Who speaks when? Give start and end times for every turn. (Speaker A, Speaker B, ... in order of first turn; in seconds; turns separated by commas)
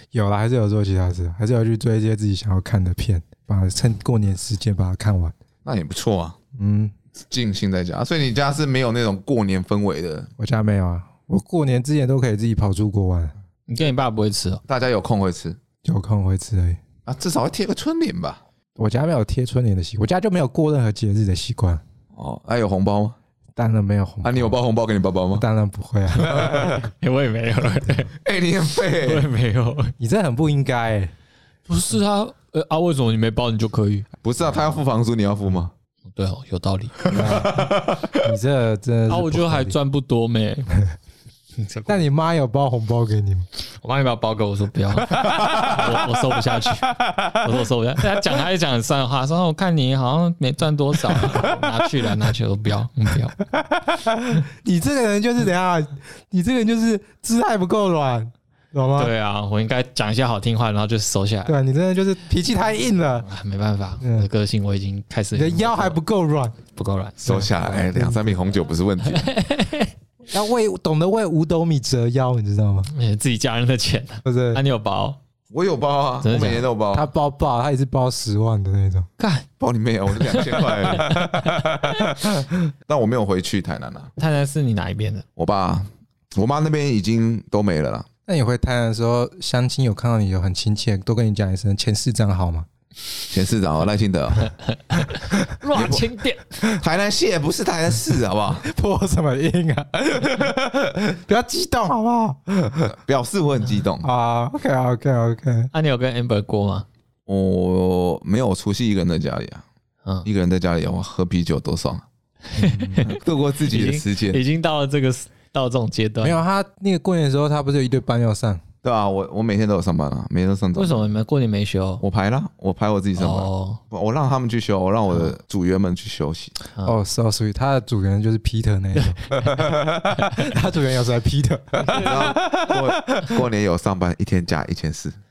Speaker A: 0.1-5.3, Speaker B: 5.7-6.4, Speaker A: 6.6-6.9, Speaker B: 7.3-10.3, Speaker A: 10.4-13.3, Speaker C: 13.7-14.6, Speaker B: 14.7-15.6, Speaker A: 15.8-16.8, Speaker B: 17.1-18.4, Speaker A: 18.8-21.8, Speaker B: 22.1-23.2, Speaker A: 23.6-24.6, Speaker B: 24.2-25.4, Speaker A: 25.4-26.7, Speaker B: 26.2-26.8, Speaker C: 26.3-28.1, Speaker B: 28.2-29.3, Speaker C: 29.0-29.9, Speaker A: 30.0-31.1, Speaker C: 31.7-34.1, Speaker B: 34.2-35.7, Speaker C: 36.1-37.5, Speaker B: 37.1-38.3, Speaker A: 37.1-37.7, Speaker A: 38.2-39.8, Speaker C: 39.1-40.8, Speaker C: 41.6-42.0, Speaker A: 41.9-43.5, Speaker C: 43.8-53.4, Speaker B: 45.2-45.8, Speaker A: 53.6-59.1, Speaker C: 59.0-61.5, Speaker A: 61.5-63.3, Speaker C: 63.2-66.0, Speaker A: 64.0-64.3, Speaker A: 65.3-66.6, Speaker C: 66.8-67.5, Speaker B: 67.2-69.3, Speaker A: 67.3-68.4, Speaker C: 69.0-69.9, Speaker A: 70.3-72.9, Speaker C: 72.9-75.2, Speaker A: 74.2-74.6, Speaker B: 75.5-77.1, Speaker C: 76.2-76.7, Speaker A: 76.9-79.1, Speaker C: 79.2-79.5, Speaker B: 79.6-84.1, Speaker C: 80.3-82.1, Speaker C: 84.2-85.2, Speaker B: 85.4-88.1, Speaker A: 88.3-92.7, Speaker B: 93.3-94.5, Speaker C: 94.7-96.6, Speaker B: 95.7-96.0, Speaker B: 96.6-98.7, Speaker A: 98.6-102.9, Speaker B: 100.2-100.5, Speaker B: 102.9-104.1, Speaker A: 104.0-105.7, Speaker C: 105.7-106.9, Speaker B: 107.3-109.6, Speaker B: 110.2-112.0, Speaker C: 112.5-116.4, Speaker A: 112.6-113.1, Speaker B: 113.0-114.4, Speaker A: 116.2-118.6, Speaker B: 118.8-121.0, Speaker C: 120.8-122.0, Speaker B: 122.0-126.6, Speaker C: 123.2-123.8, Speaker A: 126.8-129.3, Speaker C: 129.0-129.4, Speaker B: 129.4-130.0, Speaker A: 130.3-132.8, Speaker C: 131.9-132.3, Speaker B: 131.9-135.2